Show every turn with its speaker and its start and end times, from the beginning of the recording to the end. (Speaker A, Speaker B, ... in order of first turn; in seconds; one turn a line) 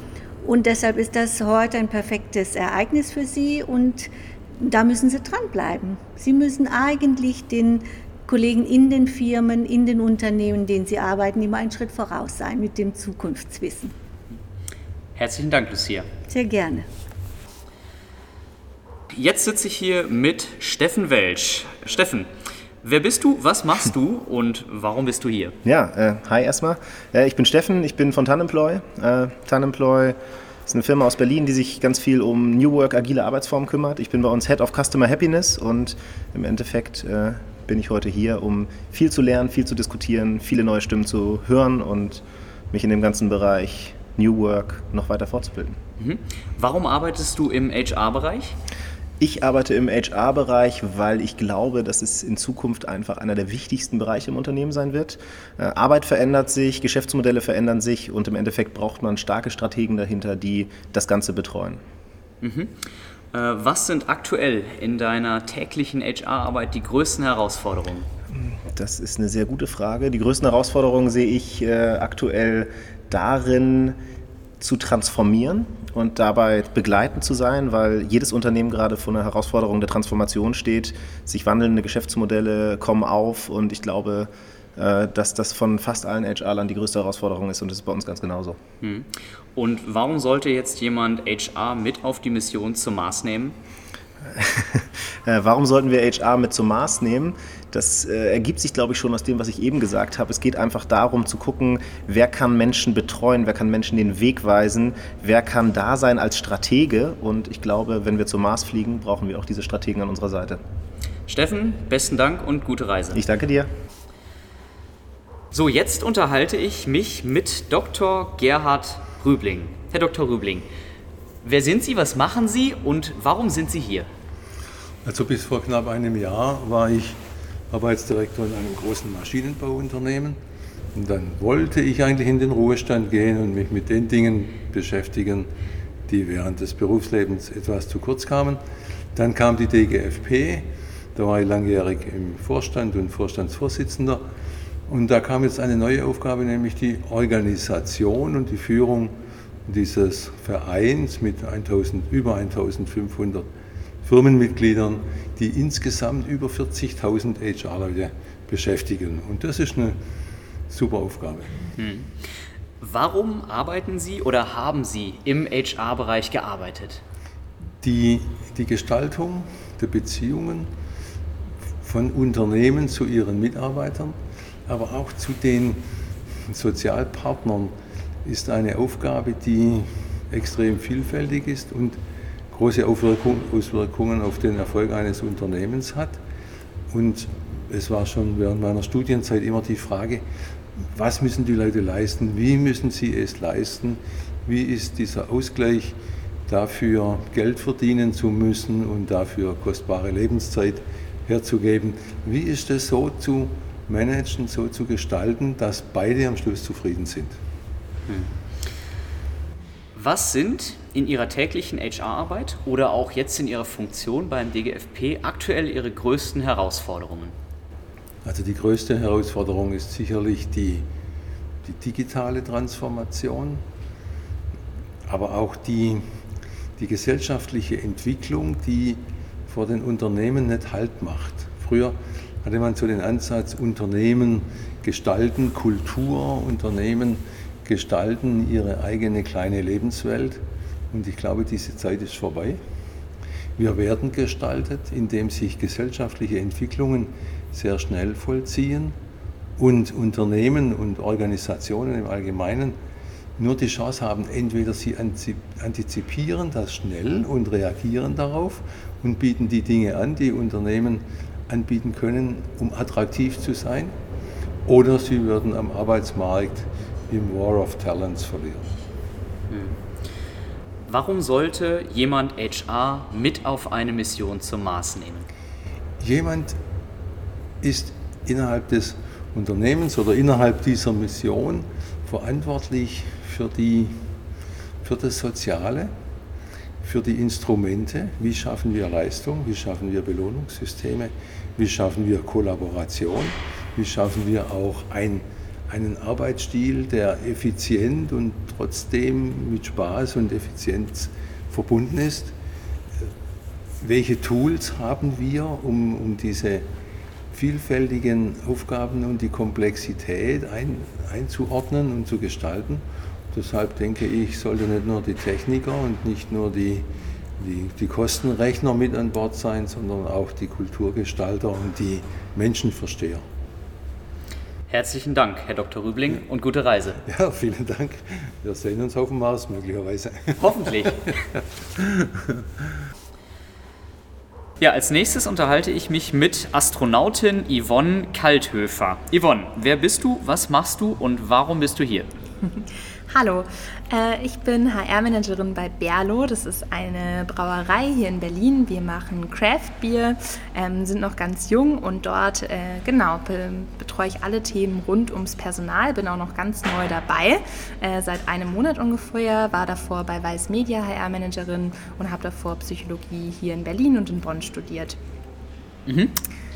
Speaker A: 0.4-13.9
Speaker B: 15.2-16.1
Speaker A: 16.3-16.9
Speaker B: 19.1-22.3
Speaker B: 22.8-25.5
Speaker C: 25.6-45.8
Speaker B: 46.0-48.5
Speaker C: 49.2-61.8
Speaker B: 62.4-68.1
Speaker C: 68.7-74.0
Speaker C: 74.6-88.6
Speaker B: 88.8-93.5
Speaker C: 94.3-110.6
Speaker B: 111.3-113.2
Speaker C: 113.1-113.7
Speaker B: 115.5-120.7
Speaker B: 121.4-124.1
Speaker D: 125.0-130.4
Speaker D: 130.9-135.5
Speaker D: 136.1-138.6
Speaker D: 139.1-144.2
Speaker D: 144.9-149.1
Speaker D: 149.7-153.5
Speaker D: 154.0-160.0
Speaker D: 160.7-161.7
Speaker B: 161.8-162.1
Speaker B: 162.8-167.0
Speaker D: 167.8-170.7
Speaker D: 171.8-182.0
Speaker D: 182.5-186.2
Speaker D: 186.9-190.2
Speaker D: 190.8-196.0
Speaker D: 196.5-207.4
Speaker B: 208.1-208.3
Speaker B: 209.9-217.3
Speaker D: 218.2-220.9
Speaker D: 221.6-223.6
Speaker D: 225.1-226.1
Speaker D: 226.8-242.6
Speaker D: 243.6-249.0
Speaker D: 249.6-252.8
Speaker D: 253.4-263.9
Speaker D: 264.6-268.7
Speaker B: 269.5-269.8
Speaker B: 270.9-275.3
Speaker D: 276.0-276.6
Speaker D: 277.6-284.1
Speaker D: 284.8-285.9
Speaker D: 286.8-302.3
Speaker D: 303.8-306.7
Speaker D: 307.3-323.2
Speaker B: 324.7-327.0
Speaker D: 327.0-332.4
Speaker B: 330.4-331.1
Speaker B: 334.6-342.1
Speaker E: 342.6-365.0
Speaker B: 365.9-366.1